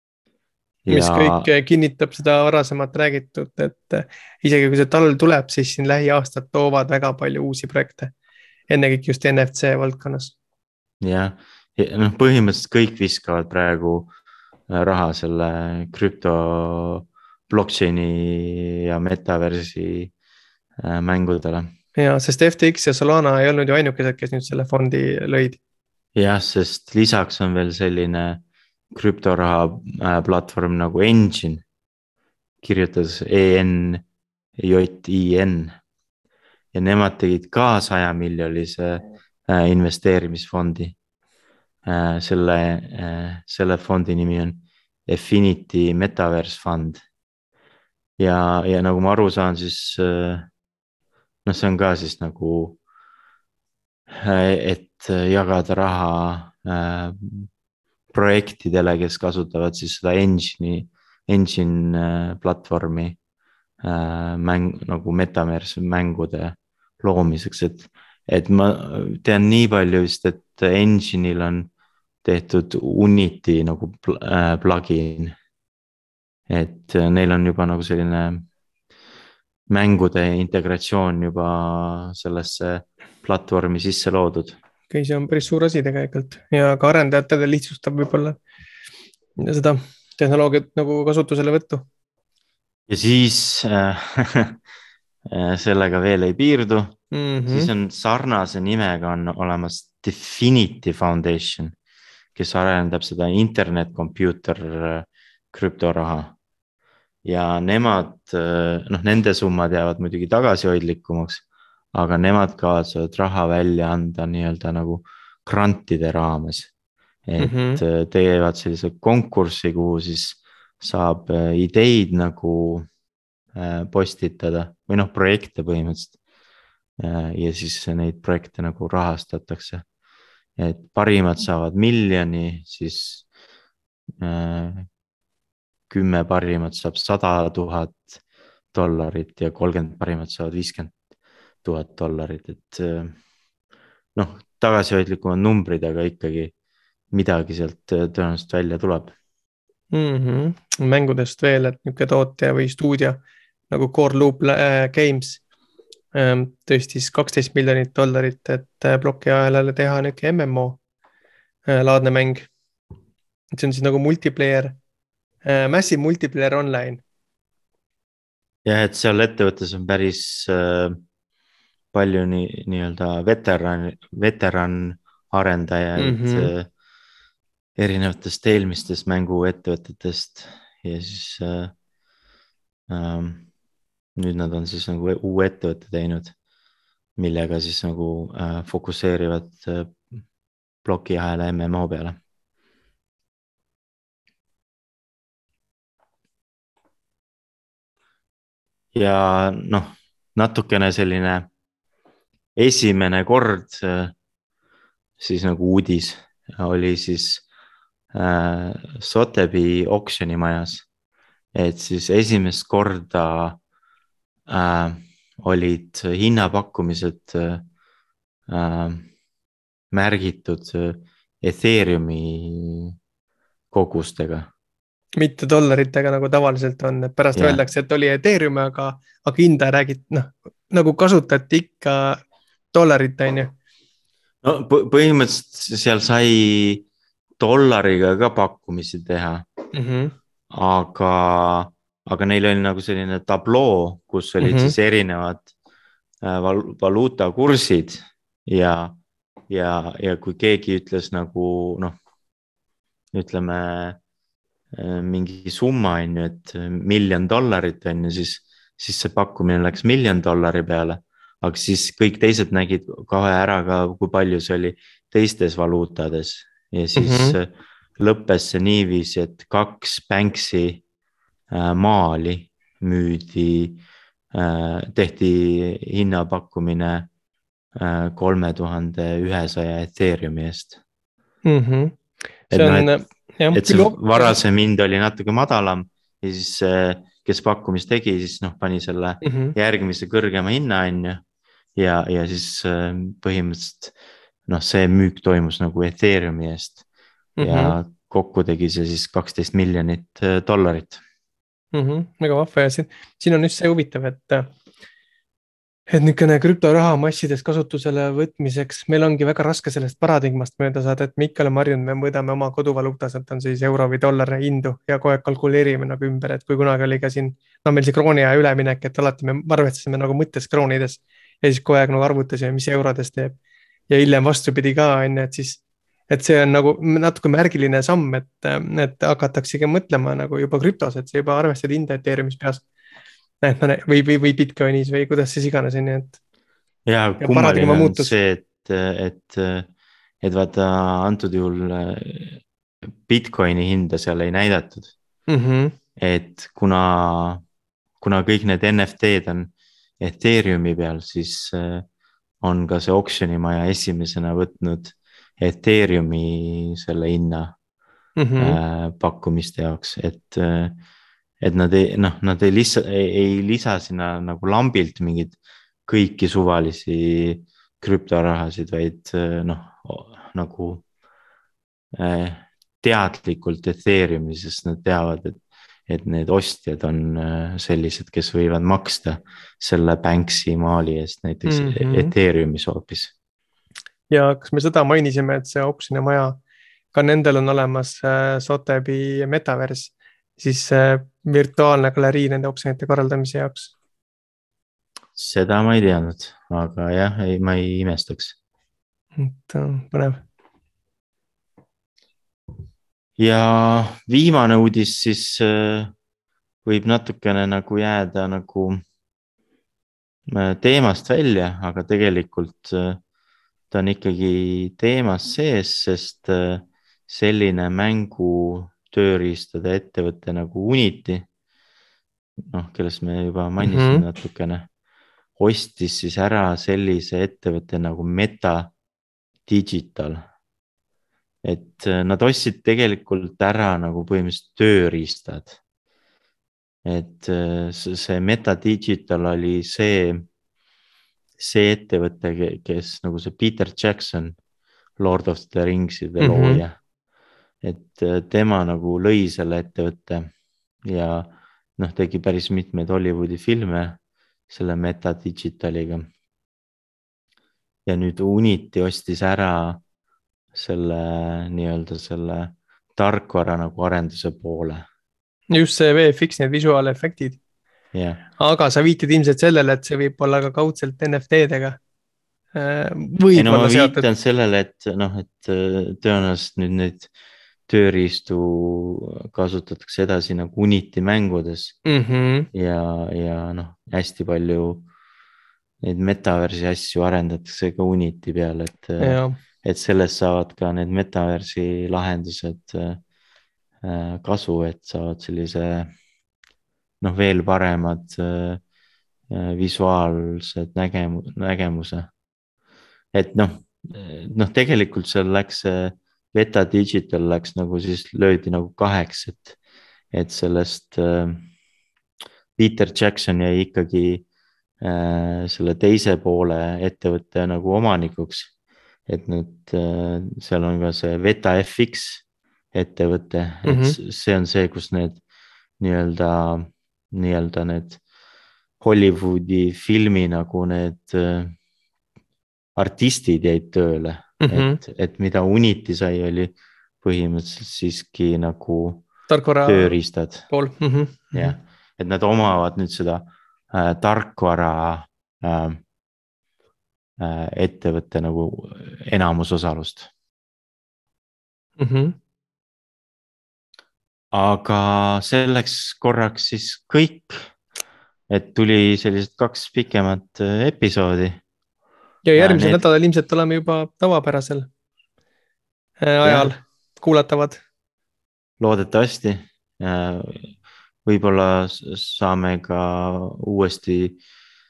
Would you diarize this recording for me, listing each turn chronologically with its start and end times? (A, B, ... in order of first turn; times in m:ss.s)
0:00.8-0:01.5 A
0:00.9-0:08.1 B
0:08.7-0:10.3 B
0:11.0-0:14.1 A
0:14.7-0:20.1 A
0:20.8-0:21.7 A
0:21.9-0:25.6 B
0:26.1-0:31.6 A
0:32.6-0:34.0 A
0:34.6-0:35.7 A
0:36.7-0:40.9 A
0:41.8-0:47.0 A
0:48.2-0:50.5 A
0:51.4-0:52.8 A
0:54.1-0:57.5 A
0:58.1-1:03.2 A
1:03.8-1:11.7 A
1:12.2-1:15.3 A
1:16.5-1:18.5 A
1:19.7-1:24.6 A
1:24.9-1:28.4 B
1:29.4-1:31.9 B
1:32.9-1:34.6 A
1:35.3-1:37.0 A
1:37.1-1:37.7 B
1:37.5-1:41.8 A
1:42.3-1:46.3 A
1:47.2-1:56.7 A
1:57.2-2:02.9 A
1:57.4-1:57.8 B
2:03.5-2:06.2 A
2:07.0-2:09.8 A
2:10.6-2:13.2 A
2:14.2-2:14.9 A
2:15.9-2:18.2 A
2:18.7-2:21.0 A
2:21.6-2:23.2 A
2:24.1-2:26.5 A
2:27.1-2:29.1 A
2:29.9-2:35.4 B
2:36.1-2:40.8 B
2:41.6-2:42.5 B
2:43.5-2:44.8 B
2:45.4-2:47.0 B
2:48.6-2:51.0 A
2:51.9-2:56.7 A
2:56.0-2:56.5 B
2:57.8-3:01.7 A
3:02.9-3:03.5 A
3:04.2-3:06.3 A
3:07.2-3:10.2 A
3:10.8-3:12.2 A
3:18.9-3:21.5 A
3:22.6-3:24.1 A
3:25.2-3:27.4 A
3:28.1-3:30.8 A
3:31.5-3:33.6 A
3:34.5-3:37.6 A
3:38.5-3:39.1 A
3:39.9-3:42.9 A
3:43.7-3:44.5 A
3:45.2-3:52.2 B
3:47.3-3:47.6 A
3:52.7-3:53.5 B
3:54.4-3:56.8 A
3:57.4-3:59.5 A
3:59.7-4:00.1 B
4:00.5-4:05.5 A
4:04.4-4:04.7 B
4:06.2-4:09.0 A
4:09.5-4:12.0 A
4:13.1-4:14.0 A
4:14.7-4:30.8 A
4:27.0-4:27.4 B
4:31.5-4:33.8 A
4:34.3-4:37.1 A
4:37.8-4:40.8 A
4:41.4-4:42.0 B
4:42.5-4:44.4 B
4:42.5-4:42.9 A
4:43.5-4:51.2 A
4:49.2-4:49.5 B
4:51.8-4:53.9 A
4:54.5-4:56.8 A
4:57.4-4:57.8 B
4:57.4-5:01.0 A
5:01.7-5:04.5 B
5:05.9-5:23.4 B
5:23.9-5:32.6 B
5:33.4-5:36.2 B
5:36.8-5:39.7 A
5:37.2-5:38.1 B
5:40.2-5:42.4 A
5:43.0-5:44.9 A
5:45.3-5:45.8 B
5:46.0-5:47.4 A
5:48.0-5:51.8 A
5:52.4-5:57.5 A
5:58.2-5:58.6 B
5:58.4-6:00.8 A
6:01.4-6:10.8 A
6:11.9-6:23.1 A
6:21.5-6:22.1 B
6:24.1-6:26.4 B
6:26.9-6:33.7 B
6:35.2-6:38.4 A
6:39.2-6:40.2 B
6:43.2-6:45.9 A
6:46.6-6:48.8 A
6:50.3-6:53.0 A
6:53.7-7:01.2 A
7:02.5-7:04.7 A
7:03.6-7:04.0 B
7:05.4-7:08.7 A
7:09.4-7:10.2 A
7:11.4-7:15.6 A
7:16.8-7:20.2 A
7:21.4-7:24.4 A
7:25.0-7:26.8 A
7:26.2-7:26.6 B
7:27.6-7:30.3 A
7:30.8-7:36.1 A
7:37.8-7:39.8 A
7:40.5-7:44.9 A
7:45.5-7:47.4 B
7:47.9-7:48.2 A
7:48.4-7:51.8 B
7:52.5-7:54.0 B
7:53.3-7:57.1 A
7:57.7-8:01.8 A
8:01.8-8:02.5 B
8:02.5-8:04.8 A
8:05.8-8:13.0 A
8:09.0-8:09.4 B
8:13.8-8:15.9 A
8:17.0-8:18.6 A
8:19.3-8:22.1 A
8:23.1-8:29.6 A
8:30.1-8:31.5 A
8:32.6-8:34.2 A
8:34.8-8:38.5 A
8:39.1-8:45.2 A
8:43.6-8:44.0 B
8:45.8-8:48.0 A
8:48.8-8:51.5 A
8:52.8-8:59.1 A
8:54.4-8:54.8 B
8:59.3-9:00.0 B
8:59.6-9:00.5 A
9:00.5-9:01.5 B
9:01.3-9:05.8 A
9:07.2-9:10.1 A
9:11.8-9:12.2 B
9:14.3-9:17.4 A
9:18.3-9:21.4 A
9:22.2-9:24.7 B
9:22.4-9:22.8 A
9:26.0-9:27.6 B
9:26.2-9:26.5 A
9:28.6-9:34.2 A